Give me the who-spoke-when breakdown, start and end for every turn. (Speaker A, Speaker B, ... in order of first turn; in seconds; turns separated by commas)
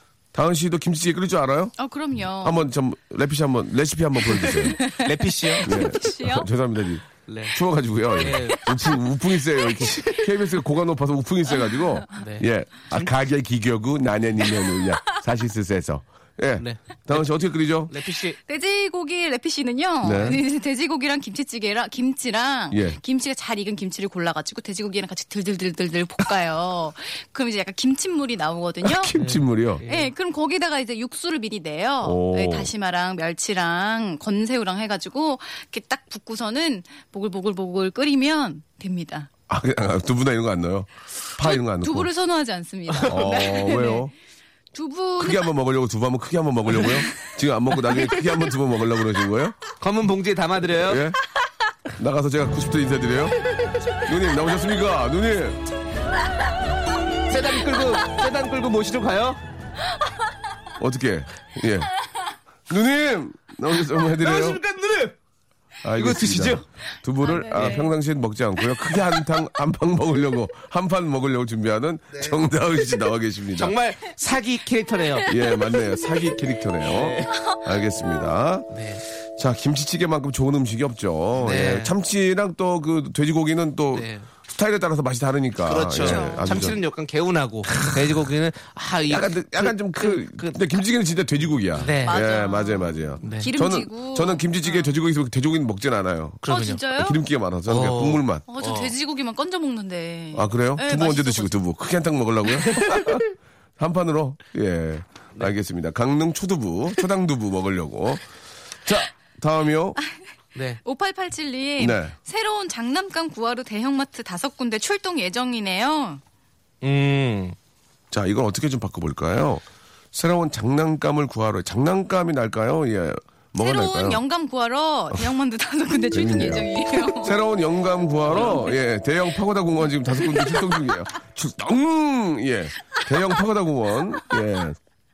Speaker A: 0.3-1.7, Speaker B: 1.8-2.6, Speaker A: 2.4-4.8, Speaker B: 4.2-6.5, Speaker C: 5.0-5.7, Speaker A: 5.6-17.9, Speaker C: 7.3-7.6, Speaker B: 8.2-8.9, Speaker C: 8.2-8.9, Speaker B: 9.6-10.1, Speaker C: 9.8-10.2, Speaker B: 11.6-12.0, Speaker C: 12.2-13.1, Speaker C: 16.6-17.3, Speaker C: 17.9-18.4, Speaker B: 18.4-29.1, Speaker A: 20.0-20.4, Speaker C: 20.1-20.4, Speaker A: 22.7-23.0, Speaker A: 28.8-29.8, Speaker C: 29.2-30.1, Speaker B: 29.9-39.3, Speaker A: 32.0-32.7, Speaker A: 39.5-42.1, Speaker B: 41.4-44.1, Speaker C: 42.9-43.4, Speaker A: 43.0-44.1, Speaker B: 44.7-45.4, Speaker A: 45.2-49.6, Speaker C: 49.8-51.0, Speaker A: 50.8-51.2, Speaker A: 52.0-53.4, Speaker A: 54.0-55.6, Speaker C: 57.3-59.4, Speaker A: 60.8-61.9, Speaker A: 62.7-64.6, Speaker C: 64.2-65.2, Speaker A: 65.8-73.7, Speaker C: 66.0-66.6, Speaker B: 67.2-67.9, Speaker C: 67.5-67.9, Speaker C: 72.1-72.4, Speaker C: 73.5-75.3, Speaker A: 75.3-78.7, Speaker C: 76.8-77.3, Speaker B: 77.3-78.2, Speaker C: 78.7-79.0, Speaker A: 79.3-86.8, Speaker C: 81.3-81.9, Speaker C: 83.9-84.3, Speaker C: 85.7-90.6, Speaker B: 85.9-86.7, Speaker A: 87.8-88.2, Speaker A: 89.1-98.5, Speaker C: 91.8-92.2, Speaker B: 92.0-94.9, Speaker C: 93.2-93.5, Speaker C: 96.4-96.8, Speaker B: 96.5-97.2, Speaker C: 97.7-98.9, Speaker B: 98.5-101.6, Speaker A: 100.3-103.3, Speaker C: 102.7-103.2, Speaker A: 103.8-108.3, Speaker A: 108.8-110.0, Speaker C: 110.5-110.8, Speaker B: 110.8-116.2, Speaker A: 111.8-112.1, Speaker C: 116.8-117.5, Speaker A: 118.1-124.2, Speaker B: 123.6-127.3, Speaker A: 126.1-134.8, Speaker C: 128.3-128.7, Speaker B: 128.4-128.8, Speaker B: 130.2-130.9